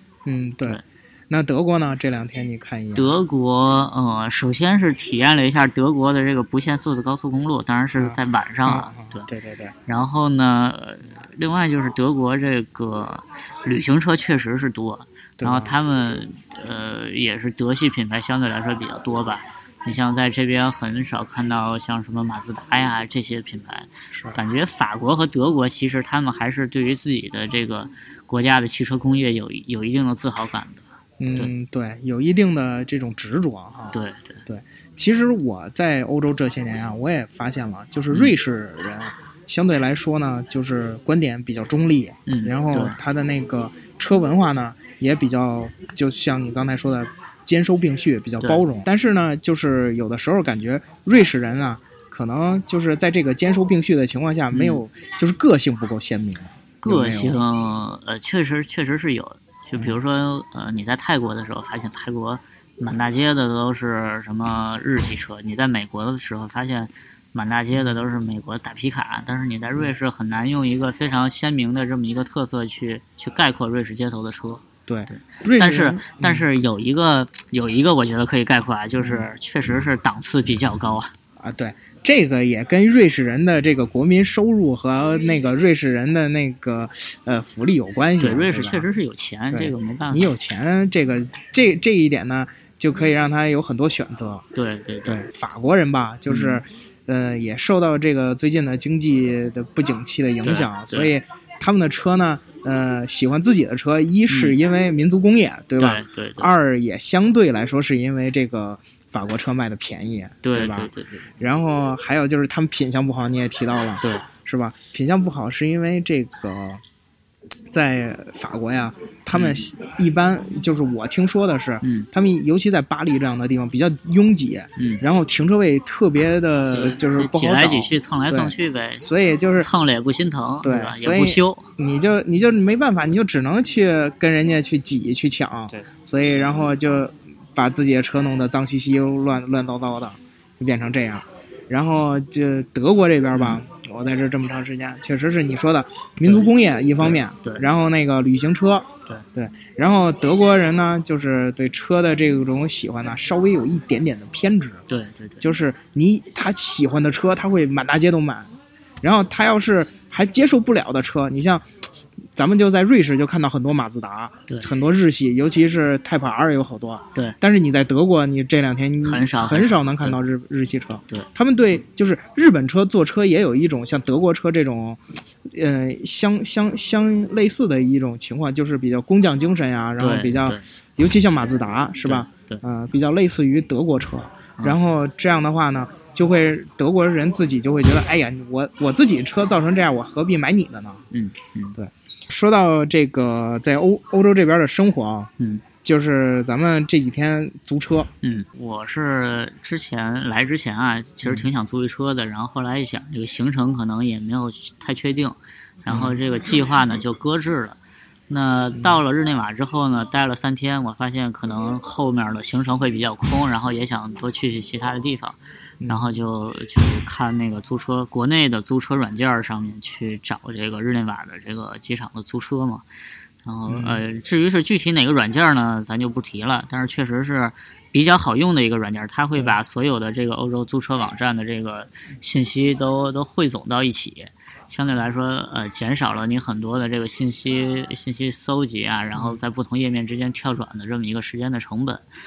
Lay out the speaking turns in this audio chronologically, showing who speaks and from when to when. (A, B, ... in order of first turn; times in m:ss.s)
0:00.2-0:03.1 A
0:03.0-0:09.3 B
0:08.0-0:09.7 A
0:09.9-0:31.5 B
0:15.4-0:15.8 A
0:24.1-0:24.4 A
0:31.2-0:57.4 A
0:33.9-0:34.4 B
0:42.3-0:43.0 B
0:54.5-0:54.8 B
0:56.8-1:21.1 B
1:07.7-1:08.0 A
1:14.9-1:16.4 A
1:19.0-1:19.3 A
1:21.4-1:28.9 A
1:28.2-1:30.3 B
1:29.5-1:34.4 A
1:34.6-1:35.2 B
1:35.0-1:56.8 A
1:36.3-1:36.6 B
1:40.4-1:41.1 B
1:44.3-1:44.6 B
1:45.8-1:46.5 B
1:50.4-1:51.3 B
1:57.7-2:09.7 A
1:59.3-1:59.6 B
2:01.8-2:02.1 B
2:04.8-2:05.0 B
2:06.7-2:11.7 B
2:10.6-2:34.8 A
2:23.3-2:23.6 B
2:27.0-2:27.7 B
2:34.9-2:35.5 B
2:35.4-2:41.8 A
2:42.4-3:11.0 A
2:49.0-2:50.2 B
3:00.0-3:00.6 B
3:02.0-3:02.6 B
3:11.1-3:11.8 B
3:11.8-3:15.3 A
3:15.4-3:15.6 B
3:15.8-3:18.1 A
3:18.2-3:27.8 B
3:21.2-3:21.5 A
3:25.9-3:26.2 A
3:28.3-3:35.4 B
3:28.7-3:29.0 A
3:35.8-3:36.1 A
3:35.9-3:42.8 B
3:43.4-4:02.1 B
3:43.7-3:44.0 A
3:59.1-3:59.4 A